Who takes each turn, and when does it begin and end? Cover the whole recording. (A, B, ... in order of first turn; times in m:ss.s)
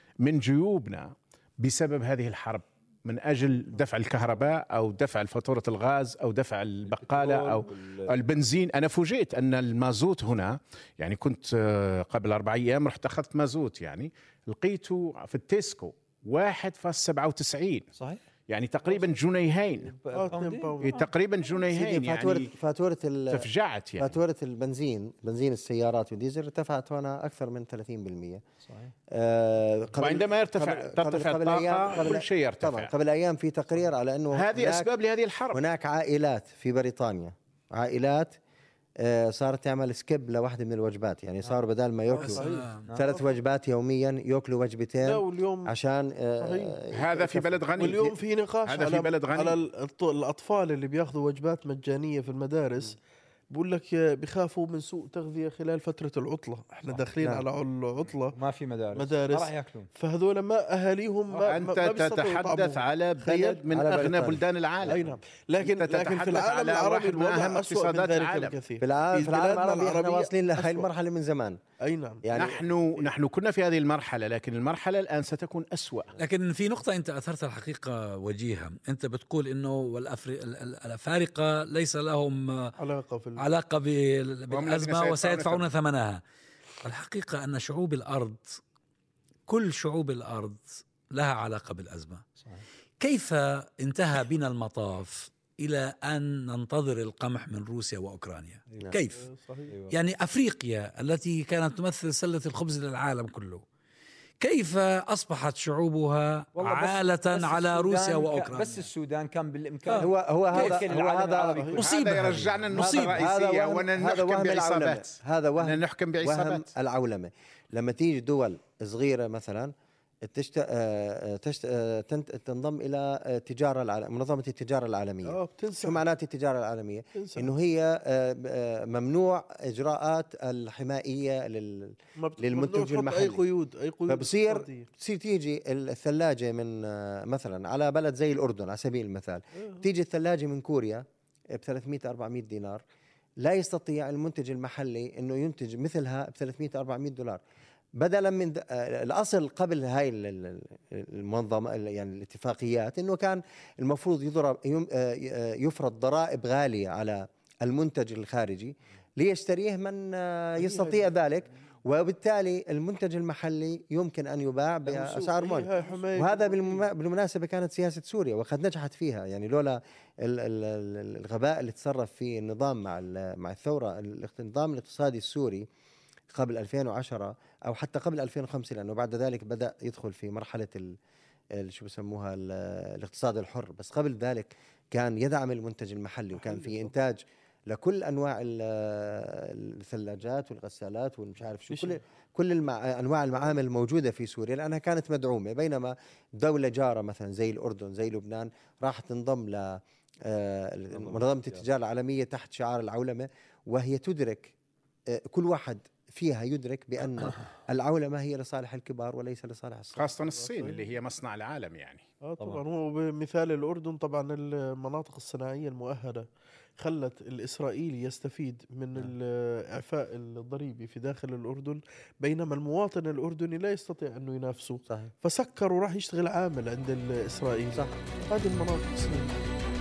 0:00.2-0:17.9 A
0:06.9-0:08.1 B
0:18.0-0:18.2 B
0:18.5-0:20.0 A
0:20.0-0:21.1 B
0:20.1-0:21.1 C
0:20.8-0:22.5 A
0:21.7-0:23.5 D
0:23.3-0:24.2 A
0:24.0-0:28.4 D
0:28.6-0:28.9 B
0:29.1-0:34.9 D
0:30.0-0:32.9 A
0:34.3-0:35.6 A
0:35.5-0:38.4 D
0:39.0-0:42.4 D
0:42.1-0:43.2 C
0:42.2-0:42.9 E
0:42.9-0:43.1 B
0:42.9-0:48.2 D
0:45.0-0:45.7 C
0:46.4-0:46.8 C
0:46.9-0:48.0 A
0:47.8-0:53.0 C
0:48.7-0:49.6 A
0:53.5-0:58.4 C
0:58.4-0:59.9 B
0:58.9-1:03.6 C
1:01.4-1:08.6 A
1:03.7-1:05.0 D
1:04.9-1:10.9 C
1:08.8-1:11.6 D
1:11.8-1:12.2 C
1:12.2-1:12.6 D
1:12.3-1:16.1 A
1:16.2-1:22.8 E
1:22.8-1:23.4 C
1:23.4-1:26.2 E
1:24.5-1:25.6 A
1:26.8-1:28.6 E
1:29.5-1:32.2 E
1:33.0-1:39.3 E
1:39.2-1:39.8 C
1:39.7-1:40.0 B
1:39.9-1:43.6 E
1:44.4-1:48.9 E
1:46.6-1:52.5 B
1:49.9-1:50.8 E
1:50.0-1:51.8 D
1:51.6-1:51.8 C
1:51.8-1:56.7 A
1:51.8-1:53.2 E
1:52.8-1:59.7 D
2:00.2-2:13.4 D
2:05.2-2:06.0 C
2:07.2-2:07.5 C
2:12.2-2:14.9 C
2:14.1-2:22.8 D
2:23.4-2:27.4 D
2:28.0-2:55.7 D
2:40.6-2:41.1 C
2:44.9-2:46.8 C
2:56.3-3:01.0 D
3:01.5-3:24.6 D
3:06.4-3:06.8 C
3:11.7-3:12.0 C
3:21.0-3:21.6 B
3:25.1-3:30.1 D
3:30.0-3:32.1 A
3:30.4-3:30.8 C
3:32.2-3:49.4 C